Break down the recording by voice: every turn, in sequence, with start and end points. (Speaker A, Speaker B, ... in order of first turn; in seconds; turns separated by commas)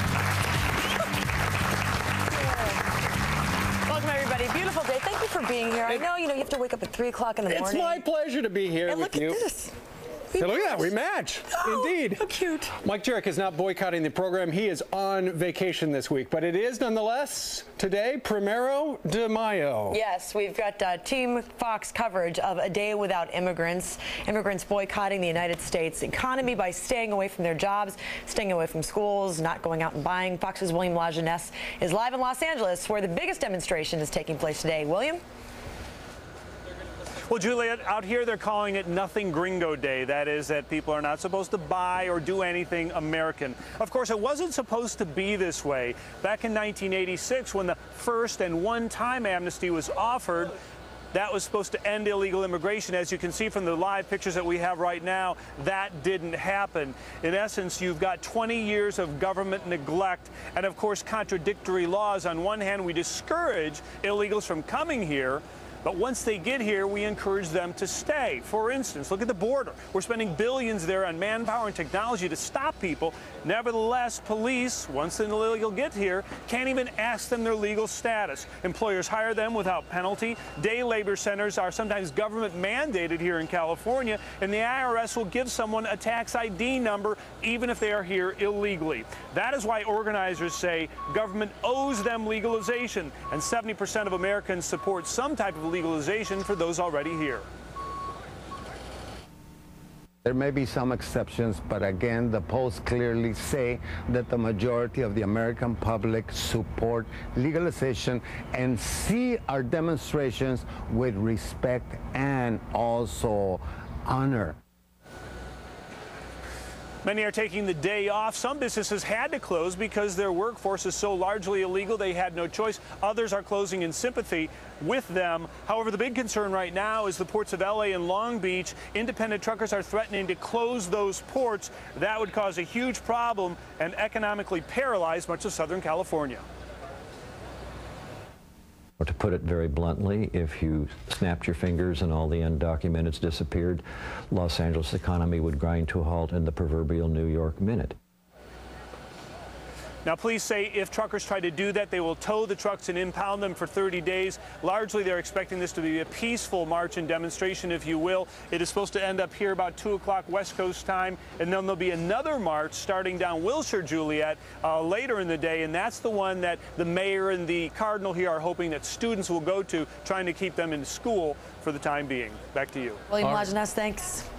Speaker A: 3.9-8.0, Speaker B: 7.5-9.4, Speaker A: 8.8-9.7, Speaker A: 10.3-10.9, Speaker B: 10.4-12.2, Speaker A: 11.5-12.7, Speaker B: 12.8-20.0, Speaker A: 19.9-35.2, Speaker C: 37.3-50.5, Speaker C: 51.1-97.5, Speaker D: 100.2-114.6, Speaker C: 117.0-136.4, Speaker E: 139.0-148.0, Speaker C: 150.0-173.1, Speaker A: 173.1-174.2